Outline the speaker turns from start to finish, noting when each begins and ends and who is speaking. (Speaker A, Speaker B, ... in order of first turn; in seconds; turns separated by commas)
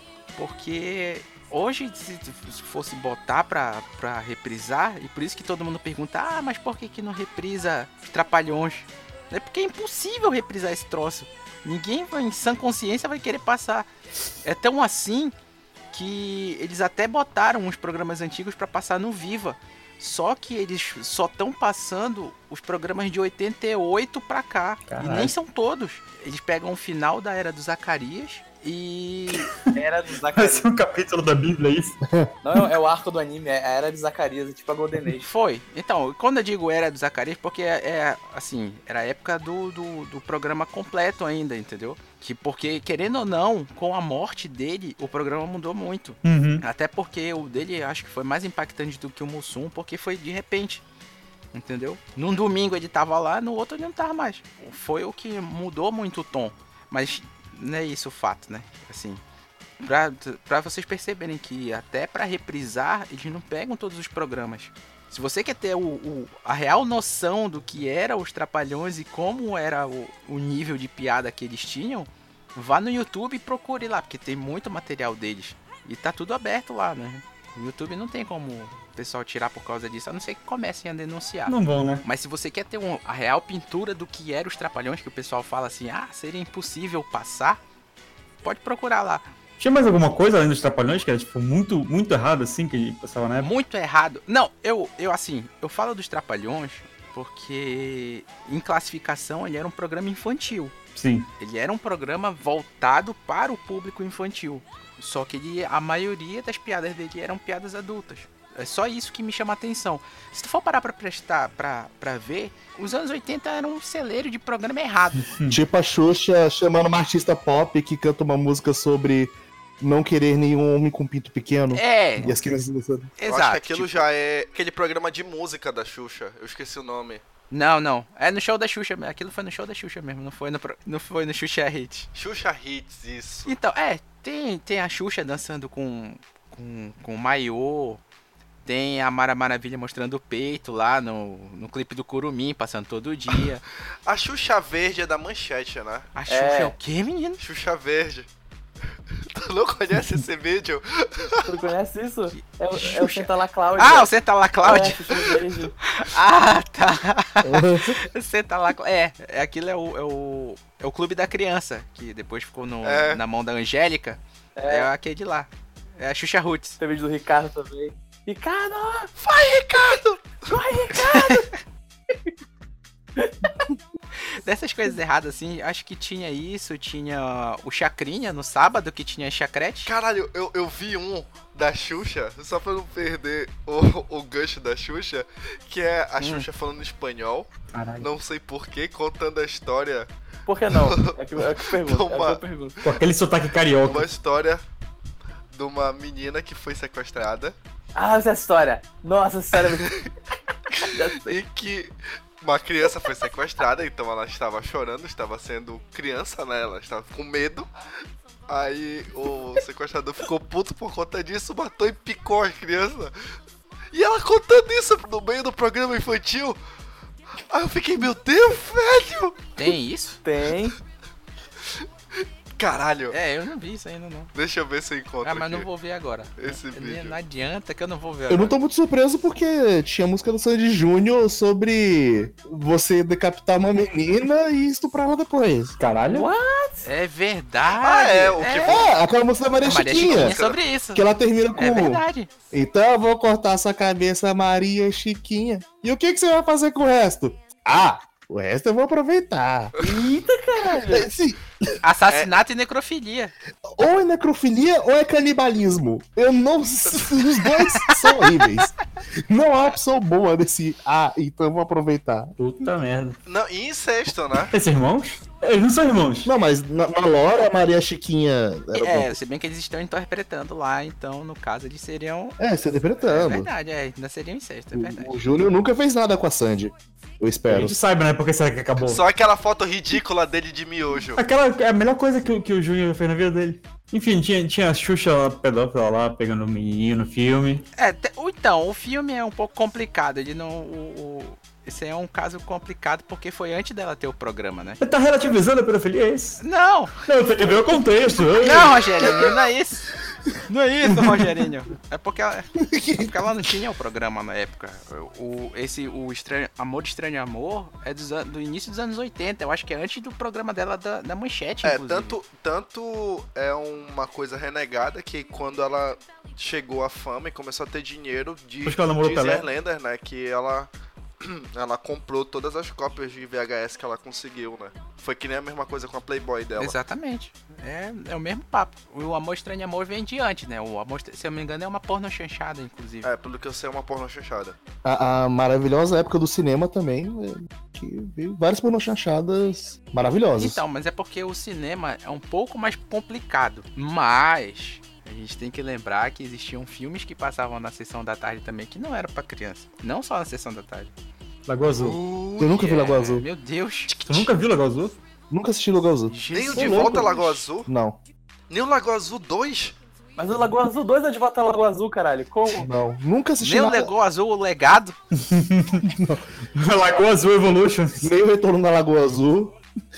Speaker A: 0.3-13.9, Speaker A: 14.4-15.3, Speaker A: 15.9-29.5, Speaker B: 24.9-25.3, Speaker B: 29.3-29.8, Speaker C: 29.7-30.7, Speaker B: 30.3-32.0, Speaker C: 32.4-35.3, Speaker A: 35.2-50.8, Speaker B: 46.2-46.6, Speaker A: 51.5-59.2, Speaker A: 59.8-87.6, Speaker B: 81.5-82.0, Speaker A: 88.4-89.3, Speaker B: 89.6-93.5, Speaker A: 93.4-100.7, Speaker B: 100.9-101.3, Speaker A: 101.4-115.2, Speaker B: 115.3-115.6, Speaker D: 115.5-123.1, Speaker A: 121.7-122.3, Speaker A: 123.2-124.0, Speaker E: 123.2-127.2, Speaker A: 127.5-132.1, Speaker E: 132.1-133.5, Speaker A: 133.4-138.0, Speaker A: 138.7-143.6, Speaker E: 144.1-146.1, Speaker A: 146.1-147.4, Speaker C: 146.3-146.7, Speaker E: 147.4-148.3, Speaker E: 149.2-151.7, Speaker C: 151.4-155.7, Speaker A: 152.3-155.0, Speaker A: 155.8-166.8, Speaker D: 157.4-158.0, Speaker E: 162.8-163.2, Speaker C: 164.6-164.9, Speaker C: 166.8-169.1, Speaker E: 169.2-170.5, Speaker C: 170.5-171.5, Speaker A: 171.1-171.4, Speaker C: 173.2-173.7, Speaker A: 174.4-179.9, Speaker E: 179.8-190.1, Speaker A: 186.2-186.4, Speaker B: 187.7-188.1, Speaker C: 190.4-192.8, Speaker E: 190.7-192.4, Speaker B: 192.8-194.1, Speaker E: 193.8-194.6, Speaker E: 195.5-197.6, Speaker C: 197.9-199.9, Speaker E: 199.7-200.1, Speaker C: 200.7-201.3, Speaker E: 201.2-207.7, Speaker E: 208.5-213.1, Speaker E: 213.9-216.6, Speaker E: 217.5-219.5, Speaker A: 219.6-220.2, Speaker C: 220.2-220.8, Speaker E: 222.6-223.2, Speaker A: 223.1-224.3, Speaker E: 224.3-225.7, Speaker A: 225.2-228.5, Speaker E: 226.4-227.2, Speaker D: 228.3-235.7, Speaker B: 235.8-236.3, Speaker C: 236.1-236.9, Speaker A: 236.8-238.8, Speaker E: 237.8-238.9, Speaker D: 238.7-240.4, Speaker A: 239.6-241.0, Speaker E: 240.0-240.6, Speaker D: 240.9-249.7, Speaker A: 241.6-242.3, Speaker C: 249.8-251.1, Speaker D: 250.8-251.4, Speaker A: 251.8-253.3, Speaker E: 252.1-252.3, Speaker D: 253.7-258.7, Speaker D: 259.3-262.3, Speaker B: 262.4-263.2, Speaker E: 263.2-264.5, Speaker B: 264.5-266.3, Speaker D: 266.2-269.2, Speaker A: 268.7-272.4, Speaker D: 272.4-273.5, Speaker A: 273.1-275.2, Speaker D: 274.7-277.8, Speaker B: 277.5-279.0, Speaker E: 278.8-281.2, Speaker B: 281.1-287.6, Speaker A: 287.8-294.8, Speaker B: 294.8-296.4, Speaker A: 296.4-297.0, Speaker B: 297.0-299.1, Speaker A: 298.4-299.9, Speaker A: 300.5-312.2, Speaker B: 300.9-301.2, Speaker D: 302.6-303.1, Speaker E: 311.6-326.8, Speaker B: 318.6-319.5, Speaker A: 326.6-333.1, Speaker E: 333.0-334.6, Speaker D: 334.8-340.6, Speaker A: 340.4-350.9, Speaker B: 351.5-352.0, Speaker E: 351.8-352.7, Speaker D: 352.4-353.2, Speaker A: 352.5-354.0, Speaker E: 353.9-354.2, Speaker B: 354.1-355.0, Speaker D: 355.3-357.0, Speaker A: 356.1-357.4, Speaker E: 356.3-357.7, Speaker B: 356.6-357.1, Speaker D: 357.6-358.0, Speaker E: 358.5-359.8, Speaker C: 360.2-362.7, Speaker D: 362.5-363.9, Speaker A: 363.4-365.0, Speaker B: 365.1-365.9, Speaker D: 365.8-366.2, Speaker B: 366.5-368.1, Speaker D: 368.0-369.6